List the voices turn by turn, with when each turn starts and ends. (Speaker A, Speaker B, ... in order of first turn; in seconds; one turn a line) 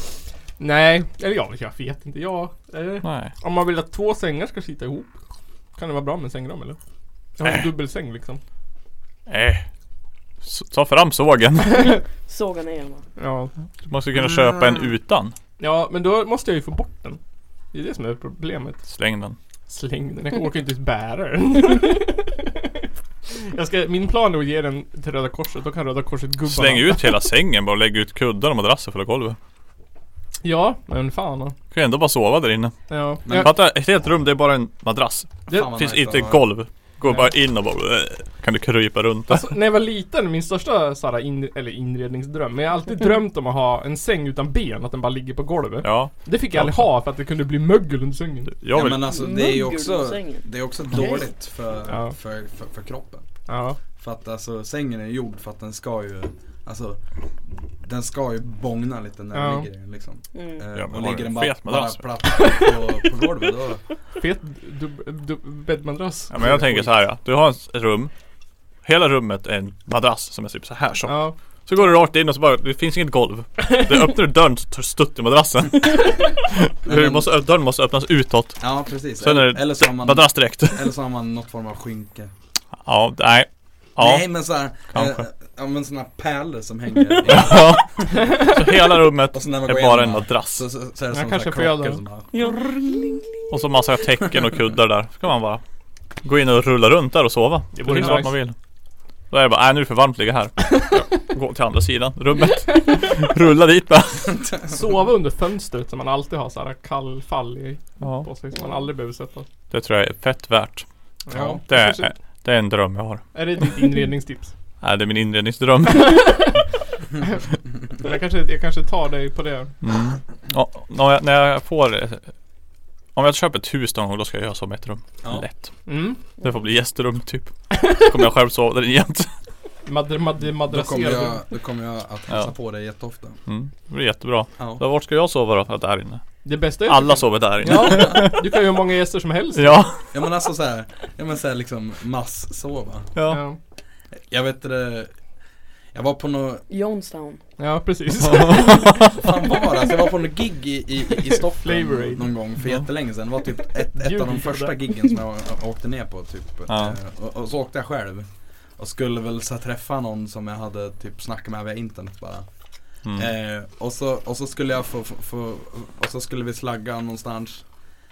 Speaker A: 0.6-5.1
Speaker B: 3.0-3.3
Speaker A: 5.8-6.8
Speaker A: 7.4-8.4
Speaker B: 7.4-7.7
Speaker B: 9.3-9.7
Speaker B: 10.4-11.9
Speaker C: 12.2-13.0
Speaker A: 13.2-13.5
Speaker B: 13.8-15.3
Speaker A: 15.6-17.2
Speaker A: 17.7-18.8
Speaker B: 18.9-19.4
Speaker A: 19.7-27.1
Speaker B: 26.4-29.4
Speaker A: 30.4-31.5
Speaker B: 31.7-39.5
Speaker A: 32.9-33.5
Speaker D: 33.2-33.5
Speaker D: 35.5-36.4
Speaker A: 37.0-37.3
Speaker A: 39.3-48.5
Speaker B: 45.8-46.9
Speaker B: 48.5-49.1
Speaker D: 48.7-53.3
Speaker C: 49.1-50.5
Speaker A: 51.9-52.1
Speaker A: 53.5-53.8
Speaker D: 54.0-57.0
Speaker D: 57.8-63.8
Speaker A: 59.3-59.7
Speaker C: 60.3-60.6
Speaker B: 60.7-62.0
Speaker A: 64.2-66.9
Speaker B: 66.3-68.1
Speaker B: 68.8-78.6
Speaker A: 71.1-71.3
Speaker D: 76.8-77.3
Speaker D: 78.6-82.3
Speaker B: 79.2-80.9
Speaker B: 82.8-84.3
Speaker D: 84.0-88.2
Speaker B: 84.9-85.2
Speaker B: 87.2-90.7
Speaker D: 89.3-92.3
Speaker A: 91.1-92.5
Speaker C: 92.3-93.3
Speaker B: 93.5-95.6
Speaker B: 96.2-98.5
Speaker A: 97.8-98.3
Speaker B: 99.3-104.4
Speaker D: 104.3-104.8
Speaker A: 104.7-109.5
Speaker B: 108.0-108.3
Speaker C: 108.5-108.9
Speaker B: 109.7-110.8
Speaker A: 111.3-112.1
Speaker D: 111.3-111.6
Speaker B: 111.6-113.2
Speaker A: 113.3-114.5
Speaker B: 114.8-116.3
Speaker A: 118.0-119.7
Speaker B: 119.8-122.3
Speaker B: 123.2-125.8
Speaker A: 125.9-126.2
Speaker B: 126.4-129.3
Speaker A: 129.8-131.4
Speaker D: 130.7-133.4
Speaker B: 133.5-138.5
Speaker D: 134.6-134.8
Speaker A: 136.4-139.9
Speaker B: 139.5-140.1
Speaker D: 140.1-143.1
Speaker B: 143.2-143.4
Speaker A: 143.3-143.6
Speaker D: 144.3-145.1
Speaker D: 145.9-146.6
Speaker C: 146.7-147.4
Speaker A: 147.6-149.0
Speaker B: 148.2-149.1
Speaker D: 149.2-158.3
Speaker A: 151.5-152.3
Speaker A: 153.9-154.8
Speaker B: 156.7-157.0
Speaker D: 158.8-162.4
Speaker D: 163.1-167.6